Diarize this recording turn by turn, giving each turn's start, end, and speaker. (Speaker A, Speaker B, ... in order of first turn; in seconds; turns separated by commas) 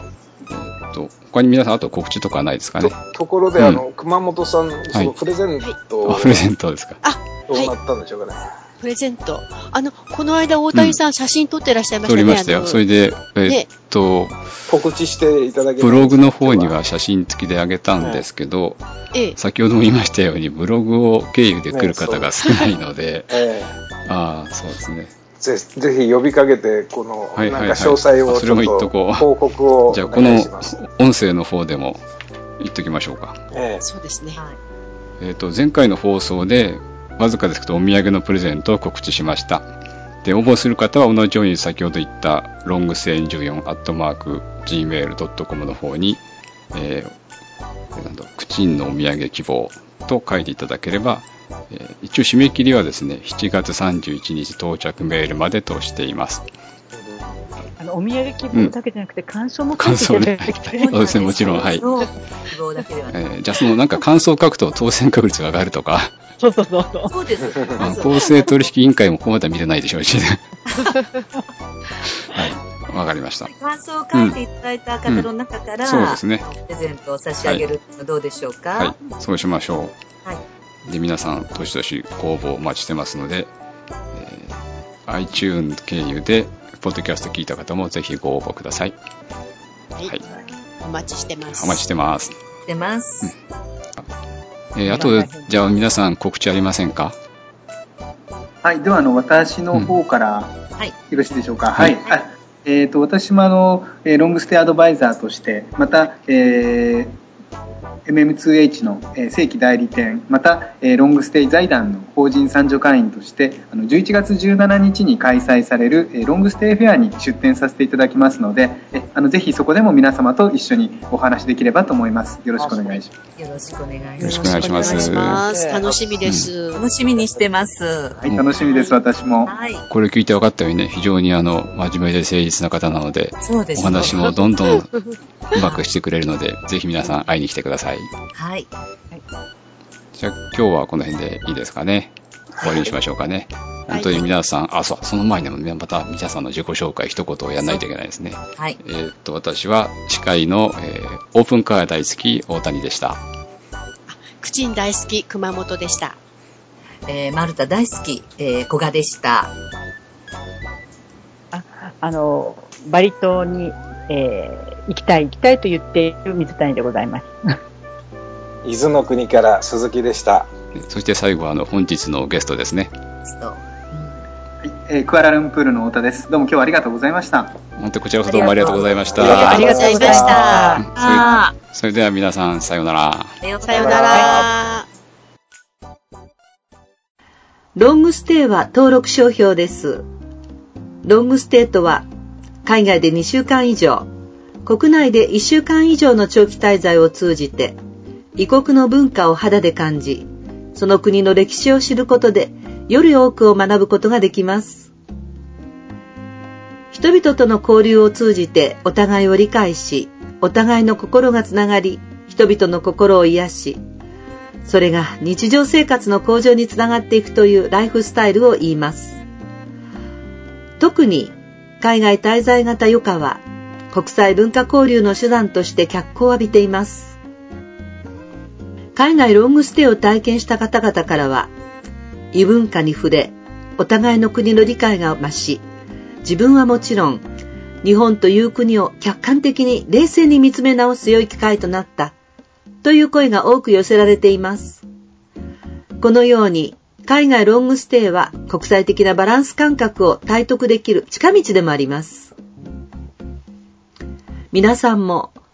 Speaker A: 0.5-3.0, Speaker B: 2.8-6.5, Speaker A: 3.6-3.8, Speaker A: 6.0-7.0, Speaker C: 7.0-7.7, Speaker B: 7.5-8.5, Speaker C: 8.8-12.8, Speaker A: 12.1-14.6, Speaker C: 13.4-13.7, Speaker B: 14.7-16.8, Speaker A: 15.8-18.8, Speaker B: 18.0-18.3, Speaker A: 19.3-23.4, Speaker B: 21.7-22.4, Speaker B: 23.3-23.8, Speaker A: 24.1-25.1, Speaker B: 25.4-30.8, Speaker A: 27.4-29.3, Speaker A: 29.9-32.0, Speaker A: 32.6-33.4, Speaker B: 33.5-33.8, Speaker C: 33.8-34.4, Speaker A: 35.2-39.7, Speaker A: 40.2-47.1, Speaker A: 48.0-56.5, Speaker B: 56.9-57.4, Speaker D: 57.8-61.7, Speaker A: 59.8-61.8, Speaker E: 60.8-63.2, Speaker A: 63.1-66.1, Speaker D: 66.4-67.1, Speaker E: 67.1-68.4, Speaker A: 67.8-70.5, Speaker A: 72.2-73.5, Speaker E: 73.5-79.0, Speaker A: 75.8-76.5, Speaker A: 77.4-77.6, Speaker A: 78.8-80.0, Speaker A: 80.9-83.5, Speaker A: 84.1-89.0, Speaker C: 90.8-91.8, Speaker A: 91.5-92.3, Speaker E: 92.7-93.3, Speaker A: 94.7-97.2, Speaker D: 94.9-95.5, Speaker F: 98.6-100.6, Speaker F: 101.1-107.2, Speaker A: 101.7-102.0, Speaker F: 108.0-123.1, Speaker E: 123.4-125.2, Speaker C: 124.2-126.9, Speaker A: 124.2-125.5, Speaker D: 125.5-125.8, Speaker A: 126.2-126.5, Speaker E: 126.8-128.2, Speaker F: 128.2-129.5, Speaker C: 128.7-128.9, Speaker E: 129.4-129.8, Speaker A: 129.9-134.9, Speaker E: 133.4-134.4, Speaker C: 133.9-135.1, Speaker A: 135.5-138.1, Speaker E: 135.6-135.8, Speaker E: 138.3-138.7, Speaker A: 140.1-153.2, Speaker C: 143.9-144.3, Speaker C: 154.1-156.2, Speaker E: 157.1-159.5, Speaker D: 161.5-167.6, Speaker B: 168.6-170.5, Speaker A: 170.8-172.9, Speaker E: 173.2-174.2, Speaker F: 174.6-177.6, Speaker A: 177.8-180.1, Speaker E: 178.2-181.5, Speaker B: 179.1-180.6, Speaker C: 179.3-180.8, Speaker D: 179.4-180.8, Speaker A: 180.8-183.4, Speaker E: 183.4-184.5, Speaker C: 183.6-184.9, Speaker B: 183.8-184.4, Speaker G: 187.8-190.1, Speaker G: 191.0-192.1, Speaker G: 192.6-194.1, Speaker G: 194.6-197.8, Speaker G: 198.4-204.9, Speaker G: 206.9-213.8, Speaker G: 214.6-219.2, Speaker G: 220.8-227.2, Speaker G: 228.9-231.5, Speaker G: 232.3-235.7, Speaker G: 236.2-237.3, Speaker G: 237.8-242.1, Speaker G: 242.8-244.8, Speaker G: 246.0-252.3, Speaker G: 254.5-255.4